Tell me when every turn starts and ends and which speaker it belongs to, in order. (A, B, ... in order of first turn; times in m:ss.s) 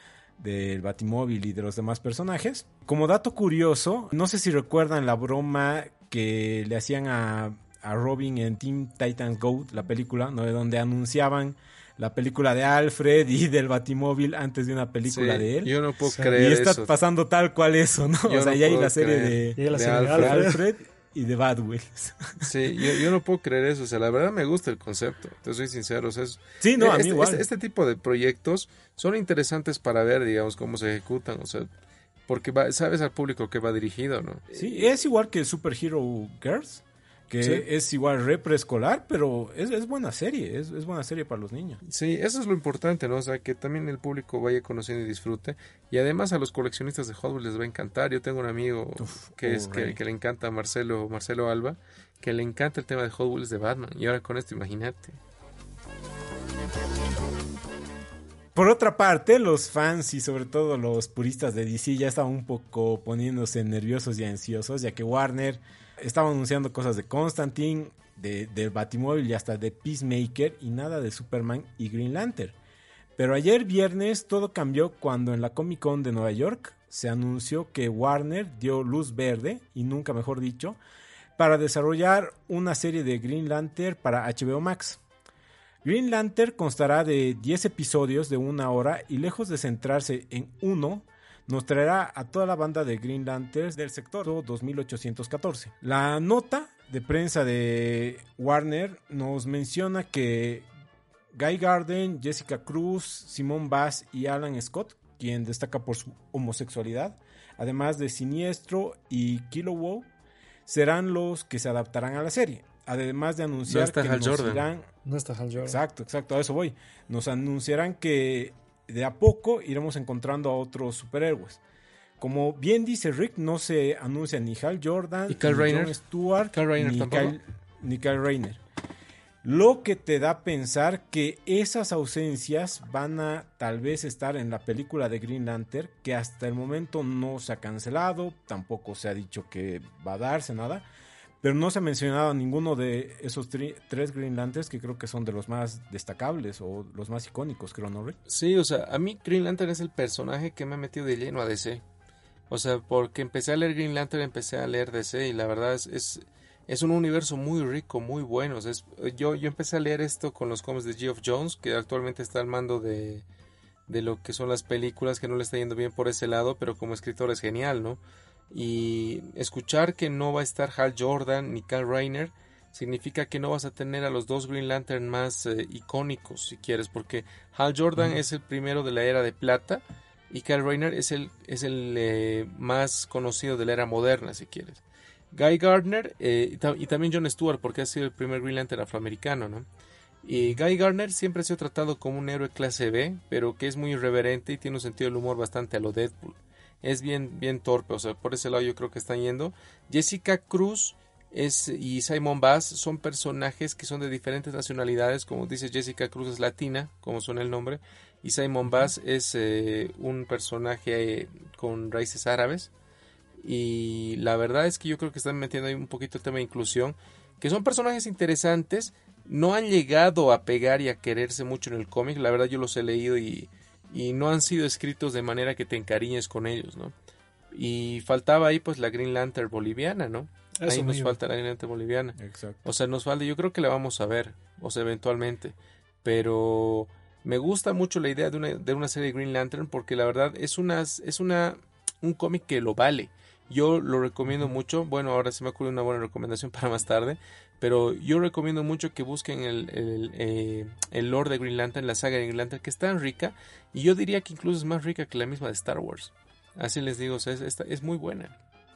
0:00.4-0:23.1 A
0:15.0-0:16.9 B
0:18.3-0:20.4 B
0:19.6-0:20.6 C
0:22.4-0:31.7 B
0:26.6-0:27.4 A
0:32.3-0:34.9 B
0:34.5-0:41.8 A
0:41.8-0:55.2 B
0:49.0-0:50.0 A
0:58.6-1:12.6 A
1:13.2-1:20.8 A
1:21.4-1:25.0 A
1:25.8-1:40.7 A
1:41.3-1:50.1 A
1:50.7-1:54.9 A
1:53.7-1:54.7 B
1:55.0-1:55.8 C
1:55.6-2:01.6 A
2:02.2-2:08.6 A
2:05.3-2:06.0 B
2:06.5-2:07.4 B
2:09.4-2:20.9 A
2:21.4-2:28.2 A
2:28.3-2:31.8 B
2:32.5-2:43.2 B
2:43.9-2:48.0 B
2:48.5-3:04.8 B
3:05.3-3:09.7 B
3:10.2-3:32.7 B
3:33.4-3:46.9 B
3:47.5-4:18.3 B
3:50.6-3:51.2 C
3:52.2-3:52.7 A